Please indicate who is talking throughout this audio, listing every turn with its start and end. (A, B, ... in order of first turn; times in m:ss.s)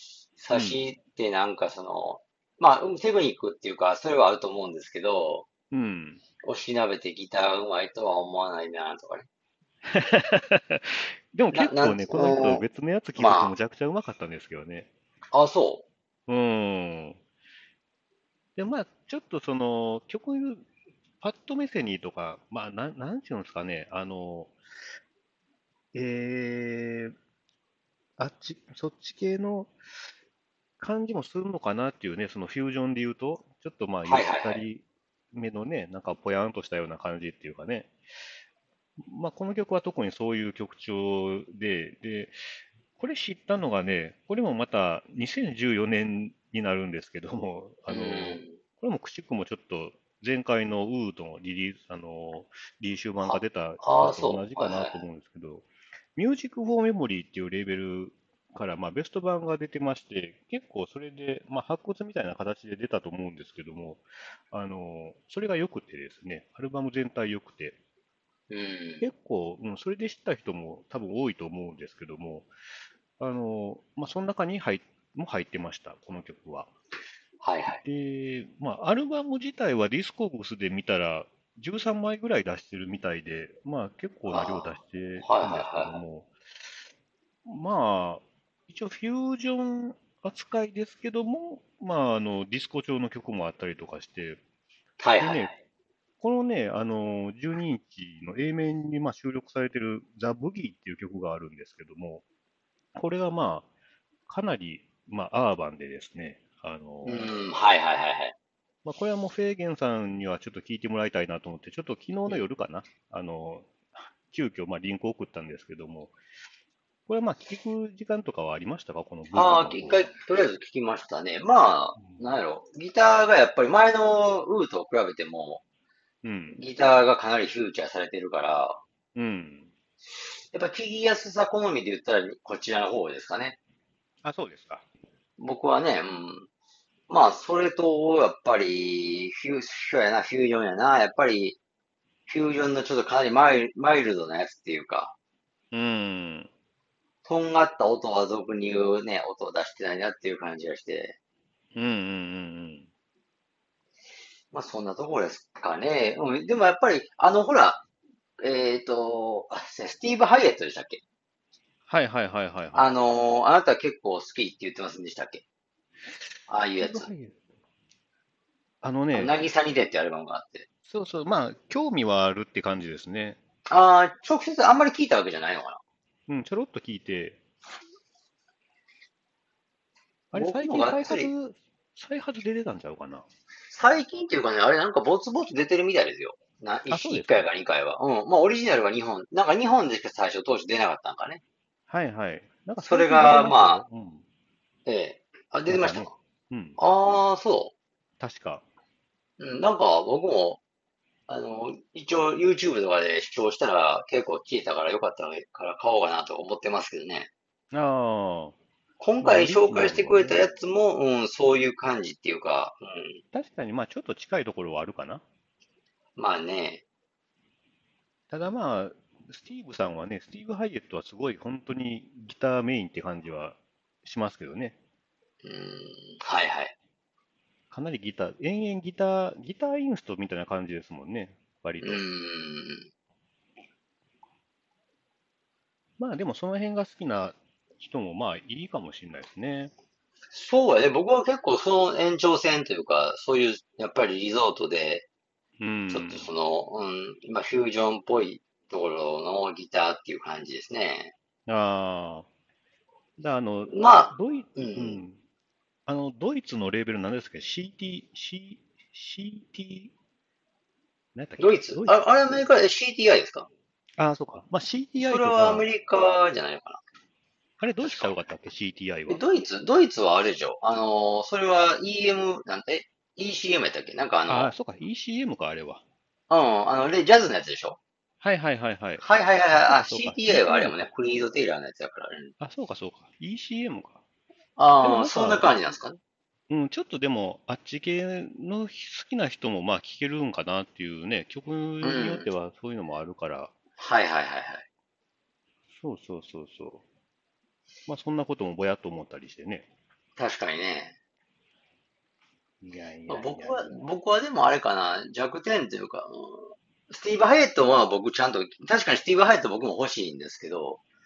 0:00.4-0:05.5 A
0:00.5-0:00.8 B
0:05.7-0:06.2 B
0:06.4-0:09.2 A
0:09.8-0:14.9 B
0:11.5-0:12.6 A
0:13.2-0:13.5 A
0:15.3-0:15.8 A
0:16.3-0:17.2 B
0:18.6-0:20.6 B
0:21.2-0:24.5 B
0:25.9-0:27.1 B
0:28.2-0:29.7 B
0:30.8-0:37.9 B
0:34.0-0:34.6 A
0:39.0-0:42.4 B
0:42.9-1:07.8 B
0:47.9-0:48.6 A
0:53.2-0:55.0 A
1:08.5-1:09.1 A
1:09.0-1:12.5 B
1:13.2-1:16.7 B
1:17.4-1:17.8 A
1:17.8-1:26.3 B
1:24.3-1:26.0 A
1:27.4-1:34.4 B
1:35.0-1:35.5 A
1:35.2-1:35.5 B
1:36.2-1:42.2 B
1:42.9-1:43.7 B
1:44.3-1:47.3 B
1:47.0-1:48.3 A
1:48.8-1:56.2 B
1:57.1-2:00.1 B
1:59.3-2:05.6 A
2:06.2-2:06.6 B
2:06.5-2:08.8 A
2:09.1-2:09.7 B
2:10.5-2:13.6 A
2:14.2-2:14.8 B
2:15.4-2:16.5 A
2:17.1-2:21.6 A
2:22.3-2:25.1 A
2:25.7-2:26.5 B
2:27.2-2:31.1 A
2:31.7-2:32.9 B
2:34.5-2:37.8 A
2:38.4-2:41.0 A
2:41.9-2:42.9 B
2:42.7-2:45.4 A
2:46.5-2:47.1 A
2:46.8-2:47.4 B
2:48.8-2:49.4 B
2:49.1-2:50.6 A
2:50.8-2:53.4 B
2:53.7-2:55.8 A
2:56.3-2:57.4 B
3:00.3-3:03.3 B
3:00.3-3:01.3 A
3:03.7-3:11.4 A
3:06.9-3:07.5 B
3:11.9-3:14.2 B
3:12.8-3:13.8 A
3:14.8-3:16.1 A
3:15.7-3:16.8 B
3:16.8-3:17.7 A
3:18.2-3:18.6 B
3:19.4-3:20.6 A
3:21.3-3:27.3 A
3:27.7-3:28.6 B
3:29.0-3:33.2 A
3:29.2-3:30.4 B
3:33.3-3:35.2 B
3:36.2-3:36.8 A
3:38.3-3:44.7 B
3:45.4-3:46.7 A
3:47.7-3:52.0 B
3:51.8-3:52.9 A
3:56.0-3:59.7 B
4:00.3-4:05.0 A
4:05.6-4:06.3 B
4:05.9-4:11.1 A
4:11.5-4:12.2 B
4:13.2-4:15.2 B
4:13.7-4:15.0 A
4:15.8-4:19.9 B
4:21.1-4:22.0 B
4:21.4-4:23.5 A
4:24.0-4:25.6 B
4:25.0-4:26.8 A
4:27.6-4:29.2 B
4:27.8-4:28.1 A
4:29.1-4:34.5 A
4:34.3-4:35.8 B
4:36.3-4:37.8 A
4:38.2-4:39.0 B
4:39.0-4:42.3 A
4:39.6-4:40.8 B
4:42.4-4:44.0 B
4:44.6-4:46.0 A
4:44.8-4:45.5 B
4:46.5-4:53.5 B
4:51.8-4:52.3 A
4:53.8-4:54.6 A
4:55.7-4:56.8 B
4:57.9-4:59.7 B
5:00.2-5:00.9 A
5:02.6-5:03.8 B
5:03.1-5:10.8 A